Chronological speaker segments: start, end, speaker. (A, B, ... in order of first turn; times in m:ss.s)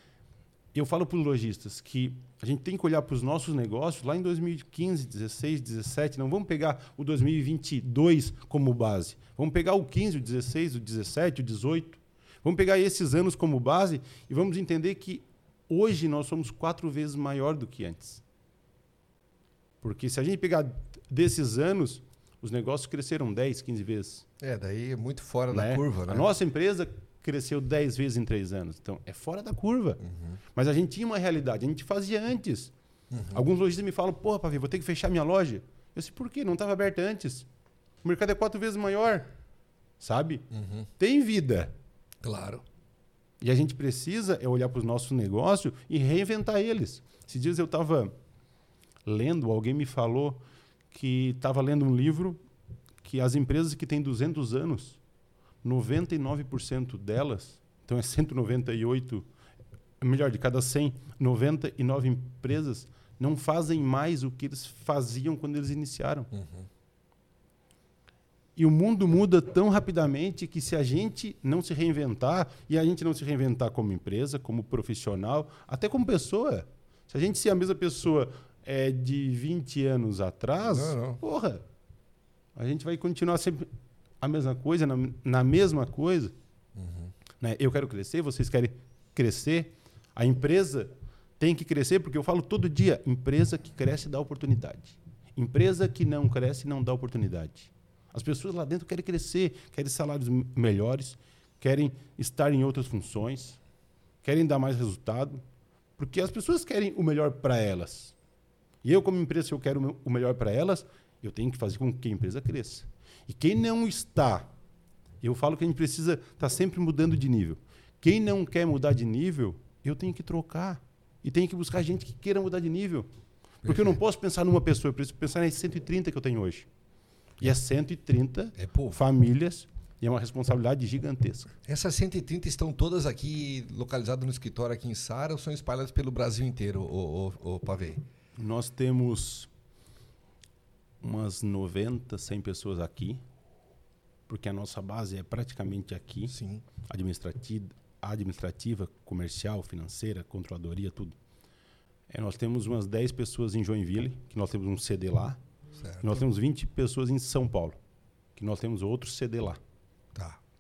0:00.7-0:18.2 A
0:19.8-0:24.2 A
0:24.4-0:26.3 B
0:25.5-0:30.0 A
0:30.0-0:30.4 B
0:30.5-0:32.7 A
0:33.1-0:33.4 B
0:33.3-0:37.5 A
0:38.0-0:39.3 A
0:40.0-0:40.5 A
0:40.5-0:40.9 B
0:41.0-0:41.7 A
0:42.2-0:42.6 B
0:43.4-0:48.1 A
0:49.0-0:52.4 A
0:53.0-0:55.0 A
0:55.6-0:59.3 A
1:00.0-1:06.3 A
1:06.3-1:06.7 B
1:08.6-1:21.6 A
1:20.7-1:21.2 B
1:22.5-1:23.7 A
1:24.2-1:26.3 A
1:26.8-1:27.1 B
1:27.4-1:43.6 A
1:44.2-1:45.4 A
1:46.0-1:48.1 A
1:48.8-1:54.5 A
1:55.2-2:03.1 A
2:03.6-2:04.0 B
2:03.6-2:06.7 A
2:07.4-2:11.5 A
2:08.6-2:09.0 B
2:11.7-2:18.0 B
2:18.4-2:19.5 A
2:21.0-2:23.2 A
2:24.3-2:31.2 A
2:26.3-2:26.6 B
2:32.1-2:35.4 A
2:35.8-2:36.2 B
2:36.0-2:37.8 A
2:38.4-2:39.6 A